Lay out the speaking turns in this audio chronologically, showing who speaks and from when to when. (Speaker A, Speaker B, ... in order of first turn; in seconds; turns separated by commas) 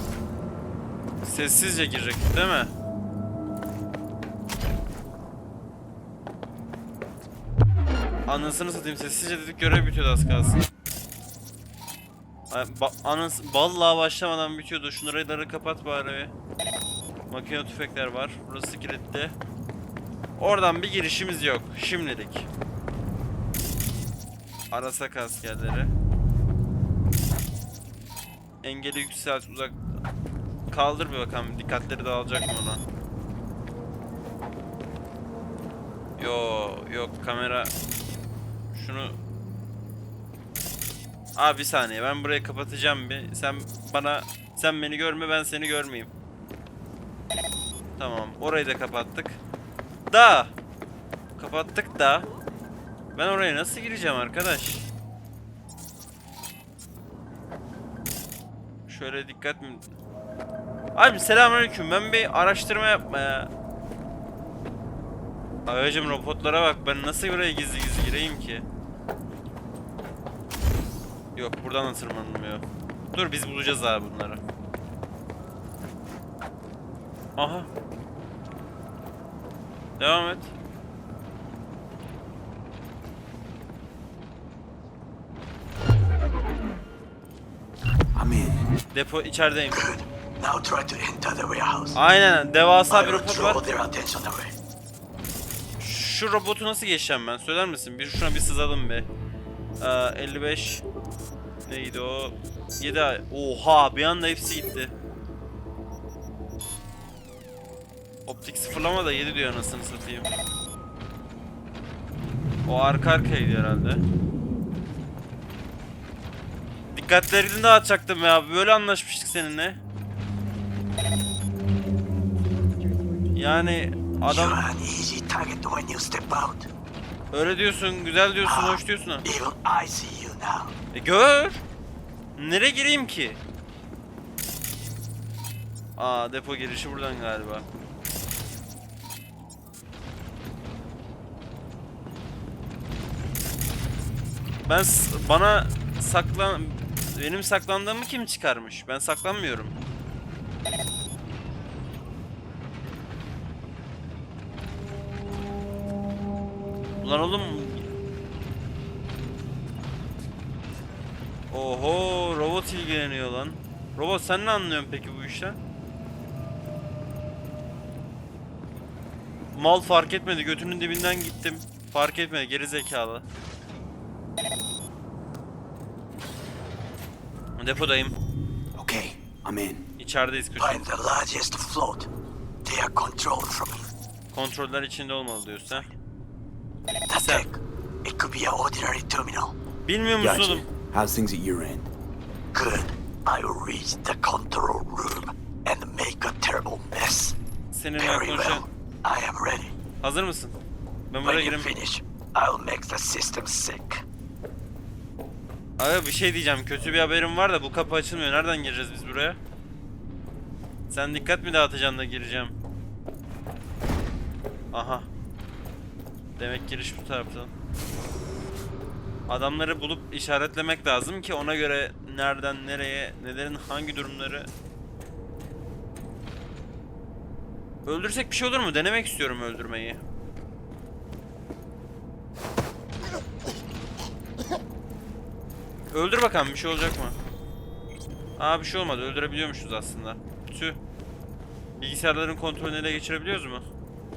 Speaker A: 1.2-2.7, Speaker A: 8.3-10.6, Speaker A: 12.5-16.3, Speaker A: 17.3-19.3, Speaker A: 20.4-22.5, Speaker A: 24.7-25.9, Speaker A: 28.6-29.8, Speaker A: 30.7-32.8, Speaker A: 36.2-37.7, Speaker A: 38.7-39.1, Speaker A: 41.3-46.1, Speaker A: 48.0-49.4, Speaker A: 50.1-50.5, Speaker A: 51.4-52.2, Speaker A: 53.1-54.9, Speaker A: 58.9-59.9, Speaker A: 60.9-63.5, Speaker A: 65.7-68.6, Speaker A: 71.3-74.4, Speaker A: 77.4-77.7, Speaker A: 80.0-80.5, Speaker B: 88.1-88.7, Speaker A: 88.9-89.8, Speaker C: 89.7-92.0, Speaker A: 91.9-93.6, Speaker C: 92.9-94.5, Speaker A: 95.8-99.1, Speaker A: 99.8-100.8, Speaker A: 101.7-104.9, Speaker A: 108.3-110.3, Speaker A: 112.7-114.0, Speaker A: 116.9-119.8, Speaker A: 123.3-124.6, Speaker C: 124.2-126.7, Speaker A: 127.3-129.2, Speaker C: 128.4-130.7, Speaker A: 130.9-131.6, Speaker A: 132.4-133.4, Speaker A: 136.0-137.6, Speaker A: 144.6-149.7, Speaker A: 157.0-157.8, Speaker A: 161.5-165.6, Speaker A: 169.5-173.2, Speaker A: 177.6-178.1, Speaker B: 178.7-179.8, Speaker A: 180.0-180.8, Speaker C: 180.6-182.1, Speaker C: 182.6-183.9, Speaker A: 184.3-185.9, Speaker C: 187.1-189.6, Speaker A: 187.1-187.5, Speaker A: 189.8-190.6, Speaker B: 190.2-191.9, Speaker C: 192.5-197.3, Speaker A: 197.7-198.6, Speaker C: 198.0-199.7, Speaker A: 200.0-200.6, Speaker A: 201.1-201.7, Speaker C: 201.2-204.0, Speaker A: 205.8-209.4, Speaker A: 210.9-212.5, Speaker A: 214.7-215.1, Speaker A: 216.4-217.5, Speaker A: 219.3-224.5, Speaker A: 227.8-230.0, Speaker A: 235.9-237.1, Speaker A: 238.4-240.8, Speaker A: 241.8-243.6